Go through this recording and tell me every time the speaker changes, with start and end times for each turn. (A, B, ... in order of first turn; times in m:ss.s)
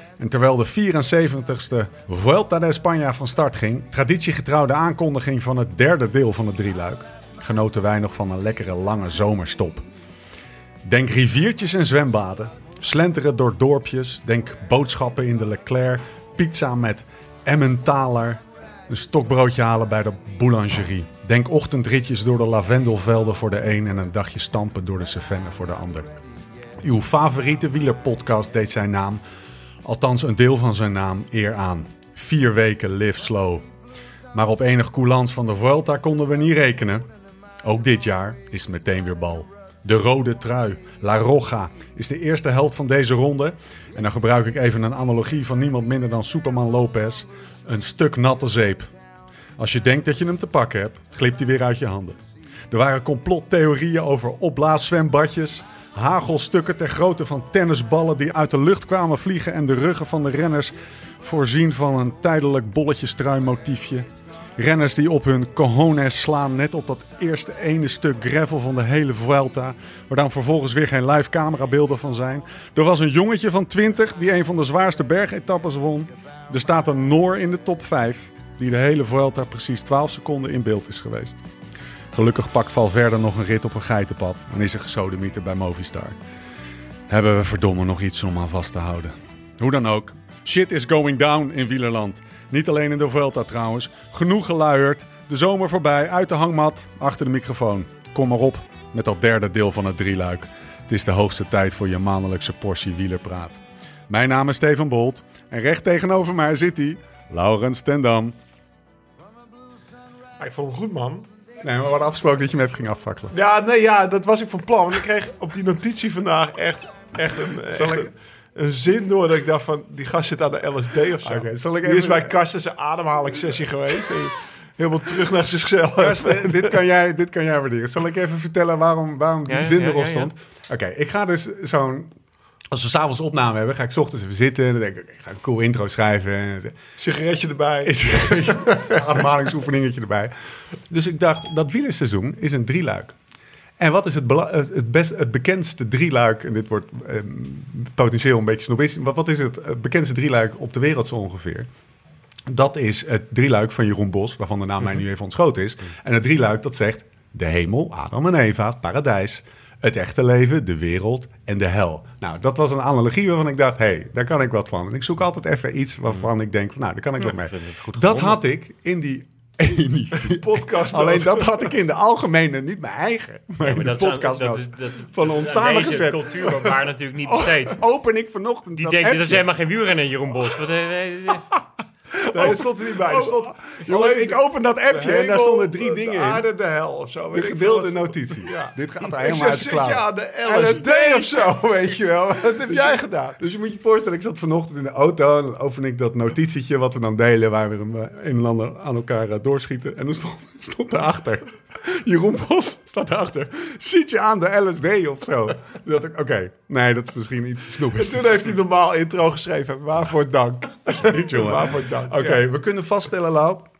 0:00.2-0:09.9 A
0:10.8-0:26.1 A
0:26.8-0:29.2 A
0:29.8-0:33.6 A
0:34.3-0:37.1 A
0:37.6-0:48.9 A
0:49.6-1:21.4 A
1:22.1-1:26.2 A
1:27.1-1:48.4 A
1:50.4-1:51.3 B
1:51.6-1:53.3 A
1:53.3-2:06.8 B
1:57.7-1:58.1 A
2:01.2-2:02.3 A
2:06.0-2:12.1 A
2:09.5-2:10.3 C
2:12.7-2:16.8 A
2:17.0-2:18.8 B
2:17.8-2:23.2 A
2:23.8-2:31.7 A
2:32.5-2:56.7 A
2:47.2-2:48.4 C
2:50.2-2:51.6 B
2:53.6-2:57.8 C
2:57.3-2:59.5 A
2:58.8-3:01.5 C
3:02.1-3:06.4 A
3:02.3-3:13.4 B
3:07.3-3:11.5 A
3:12.7-3:28.2 A
3:27.9-3:32.4 B
3:31.0-3:33.7 A